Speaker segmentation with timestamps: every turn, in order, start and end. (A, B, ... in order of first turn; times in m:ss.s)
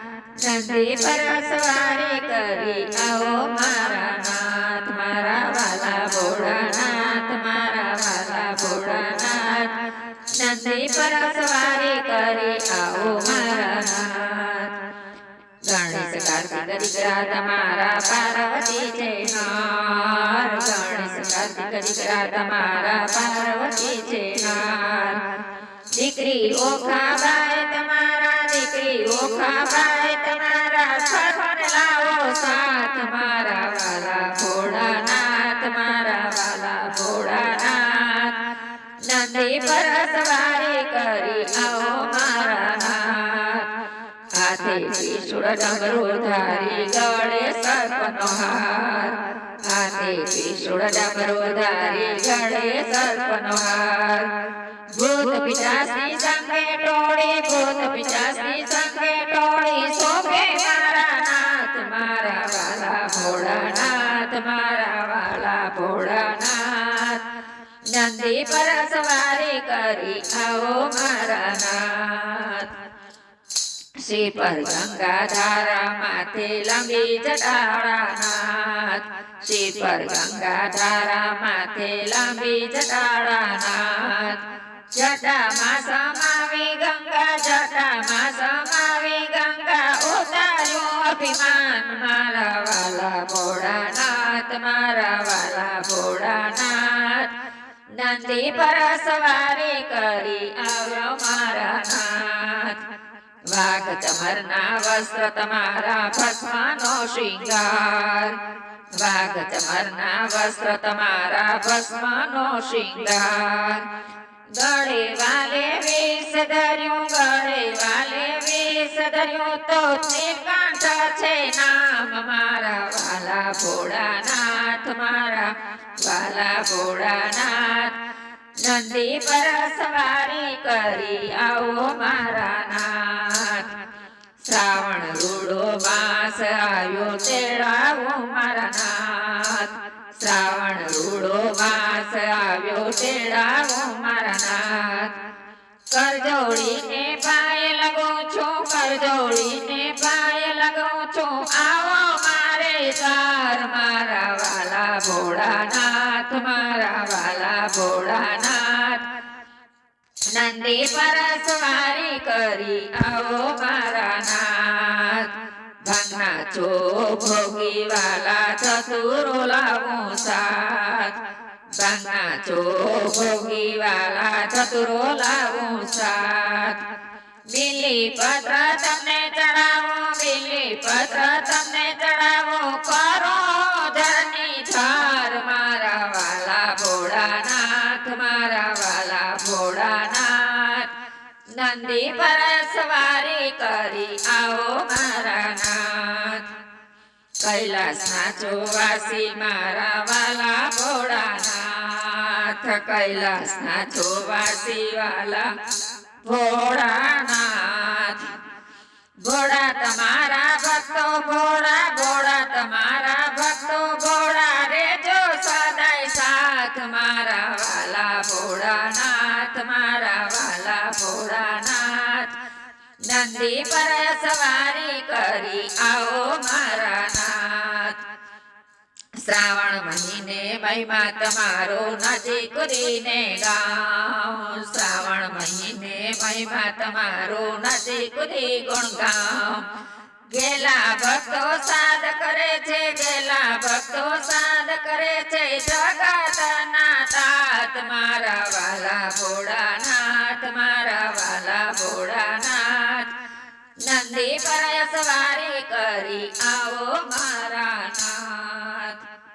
0:00.4-0:09.7 A
0:10.4-0:14.8 A
0:15.7-0:25.2 A
0:25.9-0:38.4 A
0:39.0-0:43.7 A
0:44.4-0:54.3 A
0:54.9-1:07.2 A
1:07.9-1:12.7 A
1:14.0-1:24.4 A
1:24.9-1:37.4 A
1:38.0-1:42.8 A
1:43.5-1:48.4 A
1:49.0-1:53.9 A
1:54.6-2:08.0 A
2:08.6-2:13.7 A
2:14.4-2:25.2 A
2:25.9-2:39.0 A
2:40.3-2:45.3 A
2:45.8-2:51.2 A
2:51.8-2:56.8 A
2:57.5-3:10.9 A
3:11.6-3:16.5 A
3:17.4-3:25.5 A
3:26.2-3:28.4 A
3:29.2-3:42.4 A
3:43.1-3:48.0 A
3:49.2-3:59.7 A
4:00.3-4:13.1 A
4:13.8-4:19.0 A